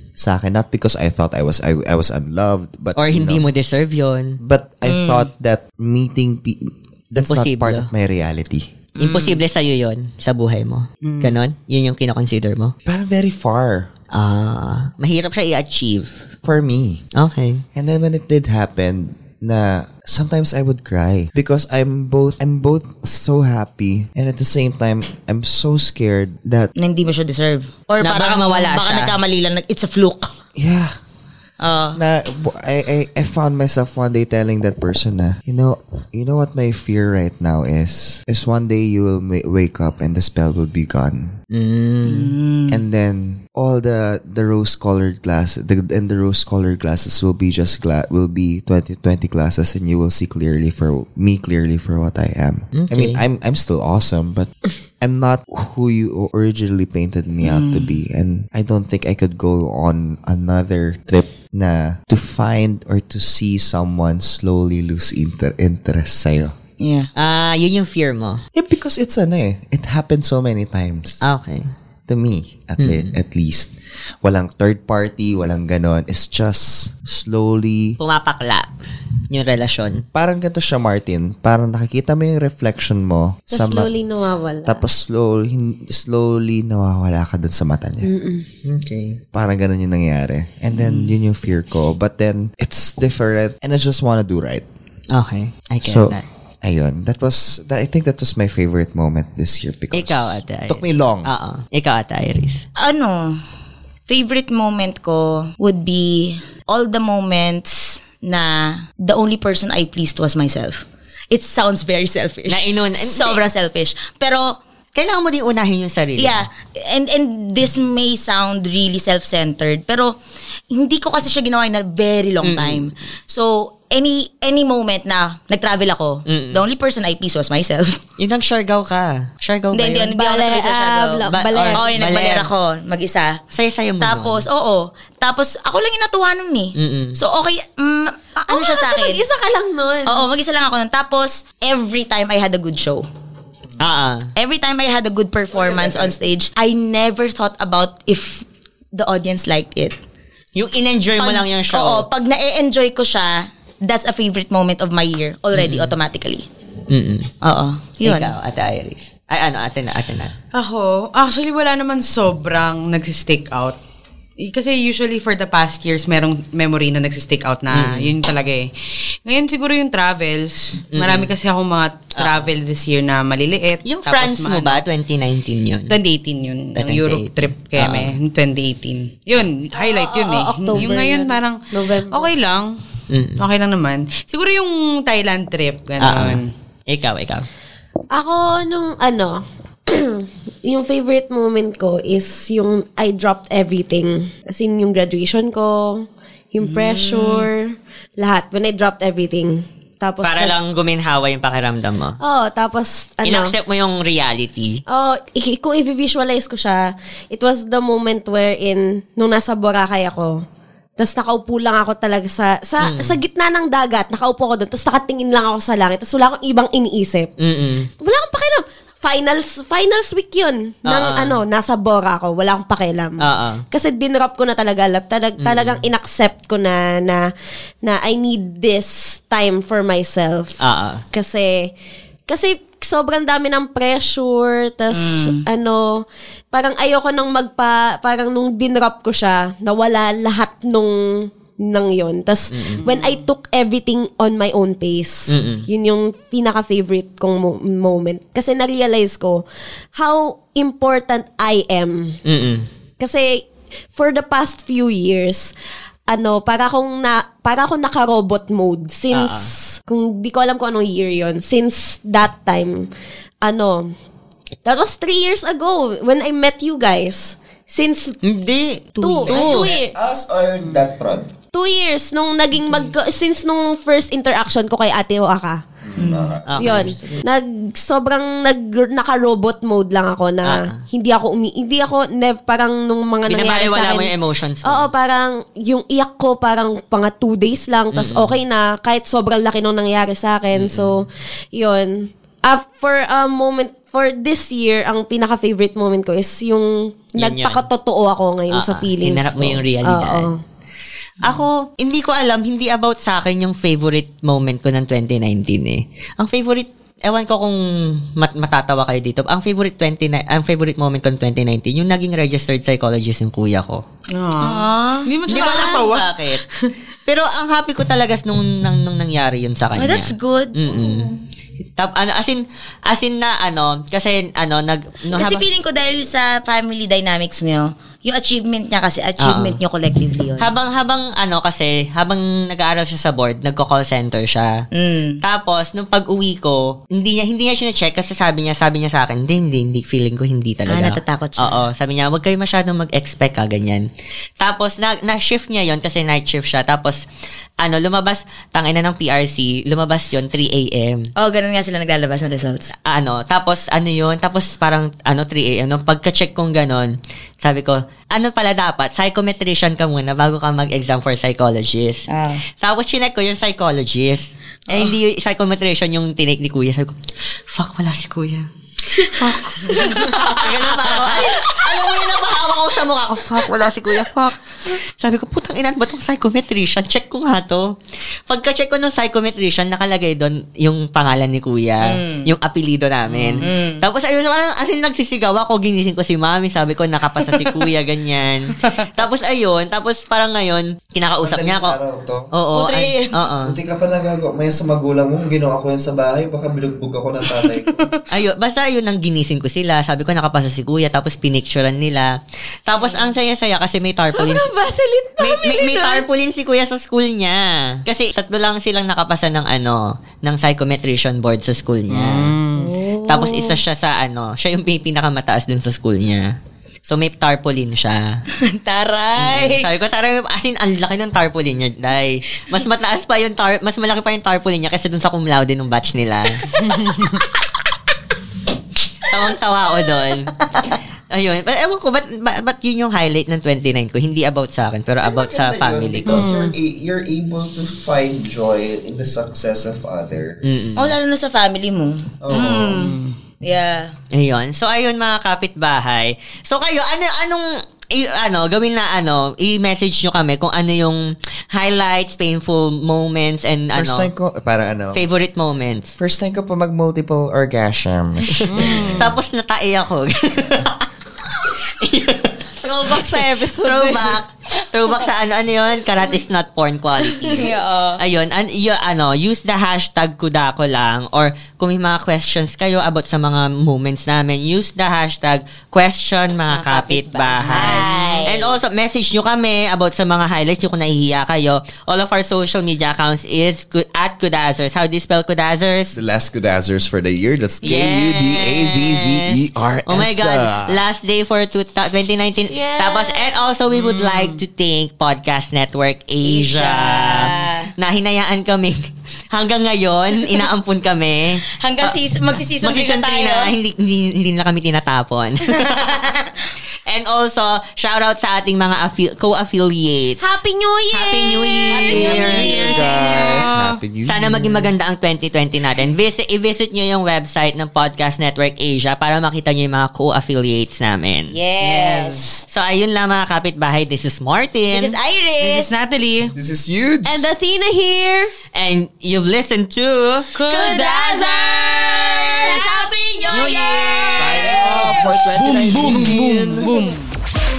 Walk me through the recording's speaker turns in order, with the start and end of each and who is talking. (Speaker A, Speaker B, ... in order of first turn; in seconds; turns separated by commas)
Speaker A: 0.2-3.4, Speaker B: 3.0-4.4, Speaker A: 4.4-8.7, Speaker C: 4.8-5.3, Speaker B: 7.2-7.9, Speaker C: 9.0-9.4, Speaker B: 9.0-12.7, Speaker D: 11.0-11.4, Speaker A: 12.8-13.9, Speaker B: 14.1-16.2, Speaker A: 16.4-17.0, Speaker B: 17.1-17.6, Speaker A: 17.7-26.7, Speaker C: 26.8-30.3, Speaker B: 28.0-29.1, Speaker A: 30.6-30.9, Speaker C: 31.6-32.0, Speaker A: 31.9-41.4, Speaker B: 41.5-42.3, Speaker C: 42.1-42.7, Speaker A: 42.7-66.5, Speaker B: 52.7-53.2, Speaker C: 57.4-57.9, Speaker C: 66.8-67.1, Speaker B: 67.2-68.4, Speaker A: 68.5-71.2, Speaker B: 71.2-71.7, Speaker A: 72.1-73.7, Speaker B: 72.8-73.1, Speaker A: 74.2-78.0, Speaker B: 78.0-78.7, Speaker B: 79.3-80.0, Speaker A: 80.1-83.9, Speaker E: 83.5-84.8, Speaker A: 84.7-88.1, Speaker E: 88.0-88.4, Speaker B: 88.6-89.2, Speaker A: 89.3-94.6, Speaker B: 90.7-91.1, Speaker B: 95.1-96.2, Speaker A: 95.8-101.3, Speaker B: 99.9-102.6, Speaker C: 102.8-103.4, Speaker C: 104.1-114.6, Speaker B: 112.5-113.4, Speaker B: 114.9-116.4, Speaker C: 116.2-120.1, Speaker C: 120.7-128.0, Speaker B: 122.4-122.9, Speaker B: 126.3-126.6, Speaker B: 128.2-130.2, Speaker C: 129.7-133.4, Speaker E: 130.2-131.9, Speaker B: 131.3-132.5, Speaker B: 133.5-134.4, Speaker C: 134.0-139.2, Speaker B: 136.8-137.2, Speaker E: 138.5-140.2, Speaker C: 140.1-143.1, Speaker B: 143.8-144.3, Speaker C: 144.3-149.9, Speaker A: 145.5-146.1, Speaker B: 150.5-152.1, Speaker C: 151.2-156.4, Speaker B: 155.5-155.9, Speaker B: 156.9-157.3, Speaker C: 157.4-158.3, Speaker B: 158.0-160.3, Speaker D: 160.5-163.8, Speaker D: 164.4-168.7, Speaker B: 167.7-168.1, Speaker D: 169.2-174.8, Speaker B: 170.9-171.3, Speaker B: 172.2-172.5, Speaker B: 173.8-175.9, Speaker D: 175.9-182.8, Speaker B: 176.8-178.1, Speaker E: 179.8-182.3, Speaker B: 183.1-183.4, Speaker D: 183.4-186.5, Speaker B: 186.0-187.5, Speaker E: 188.1-200.5, Speaker D: 196.6-197.5, Speaker B: 200.2-202.2, Speaker E: 202.2-203.5, Speaker B: 203.2-204.8, Speaker E: 204.9-210.4, Speaker E: 211.0-217.3, Speaker B: 212.8-213.2, Speaker B: 217.4-217.9, Speaker E: 218.0-227.2, Speaker B: 220.8-221.4, Speaker B: 223.2-223.6, Speaker B: 225.4-225.8, Speaker E: 227.8-230.6, Speaker B: 230.6-231.0, Speaker E: 231.1-231.7, Speaker E: 232.3-249.4, Speaker C: 234.9-235.4, Speaker B: 242.5-242.8, Speaker D: 242.8-243.2, Speaker B: 245.3-245.7, Speaker E: 249.9-252.2, Speaker B: 252.2-252.7, Speaker E: 253.0-255.5, Speaker E: 256.1-262.9, Speaker B: 259.1-259.5, Speaker E: 263.4-263.9, Speaker E: 264.6-268.2, Speaker B: 268.2-269.7, Speaker E: 269.0-269.9, Speaker A: 269.3-271.3, Speaker E: 271.5-275.6, Speaker A: 275.8-276.7, Speaker C: 275.9-277.2, Speaker B: 276.5-277.0, Speaker E: 276.6-284.1, Speaker B: 280.4-280.8, Speaker B: 283.3-284.9, Speaker E: 284.6-300.4, Speaker B: 287.9-288.3, Speaker B: 290.5-291.0, Speaker B: 297.2-297.6, Speaker B: 298.5-300.3, Speaker B: 301.2-313.8, Speaker D: 314.1-316.4, Speaker C: 314.4-315.6, Speaker B: 315.3-316.4, Speaker B: 317.1-321.1, Speaker C: 319.8-321.1, Speaker B: 321.8-325.5, Speaker C: 325.1-330.5, Speaker B: 329.2-329.6, Speaker B: 330.4-334.6, Speaker C: 334.7-335.2, Speaker B: 335.2-343.9, Speaker C: 340.7-341.6, Speaker B: 344.4-347.0, Speaker B: 347.6-351.1, Speaker C: 351.2-352.7, Speaker B: 352.9-362.1, Speaker C: 362.1-362.4, Speaker B: 362.6-367.0, Speaker B: 367.5-368.5, Speaker C: 369.1-370.4, Speaker B: 369.2-377.8, Speaker C: 371.1-371.6, Speaker B: 378.3-391.8, Speaker C: 381.9-382.3, Speaker C: 383.4-383.8, Speaker A: 391.2-392.3, Speaker B: 392.3-393.6, Speaker C: 392.5-393.2, Speaker A: 393.4-397.9, Speaker B: 398.1-402.1, Speaker B: 402.7-404.5, Speaker E: 404.1-406.0, Speaker B: 405.2-412.3, Speaker D: 411.9-412.7, Speaker C: 412.6-413.6, Speaker B: 413.1-418.1, Speaker C: 418.4-419.7, Speaker B: 419.2-426.4, Speaker D: 426.6-427.1, Speaker B: 429.1-430.5, Speaker B: 431.1-436.3, Speaker A: 435.0-440.8, Speaker D: 436.1-436.5, Speaker B: 440.4-440.9, Speaker C: 440.8-443.9, Speaker A: 442.2-442.9, Speaker D: 442.8-443.1, Speaker B: 444.1-454.1, Speaker A: 453.7-455.1, Speaker B: 454.9-456.0, Speaker A: 456.0-459.1, Speaker D: 458.5-459.1, Speaker B: 458.9-486.0, Speaker E: 462.6-464.1, Speaker C: 467.2-468.0, Speaker C: 476.5-478.6, Speaker A: 485.9-490.8, Speaker B: 487.6-501.9, Speaker C: 487.7-488.4, Speaker E: 492.5-493.3, Speaker D: 493.7-494.4, Speaker C: 496.2-497.7, Speaker C: 501.6-503.5, Speaker B: 502.5-506.0, Speaker C: 505.5-506.2, Speaker B: 506.9-510.2, Speaker E: 510.2-513.5, Speaker B: 510.9-512.8, Speaker C: 511.7-512.8, Speaker A: 512.1-514.7, Speaker D: 512.3-513.8, Speaker B: 514.0-521.3, Speaker C: 521.3-522.3, Speaker D: 521.6-522.4, Speaker B: 522.5-525.0, Speaker C: 524.7-525.7, Speaker D: 525.4-526.3, Speaker A: 526.3-527.3, Speaker E: 527.0-528.3, Speaker B: 528.5-530.3, Speaker D: 530.4-530.9, Speaker C: 530.5-535.0, Speaker E: 530.5-531.4, Speaker E: 532.4-532.9, Speaker D: 532.4-532.7, Speaker D: 533.3-537.1, Speaker A: 534.1-536.7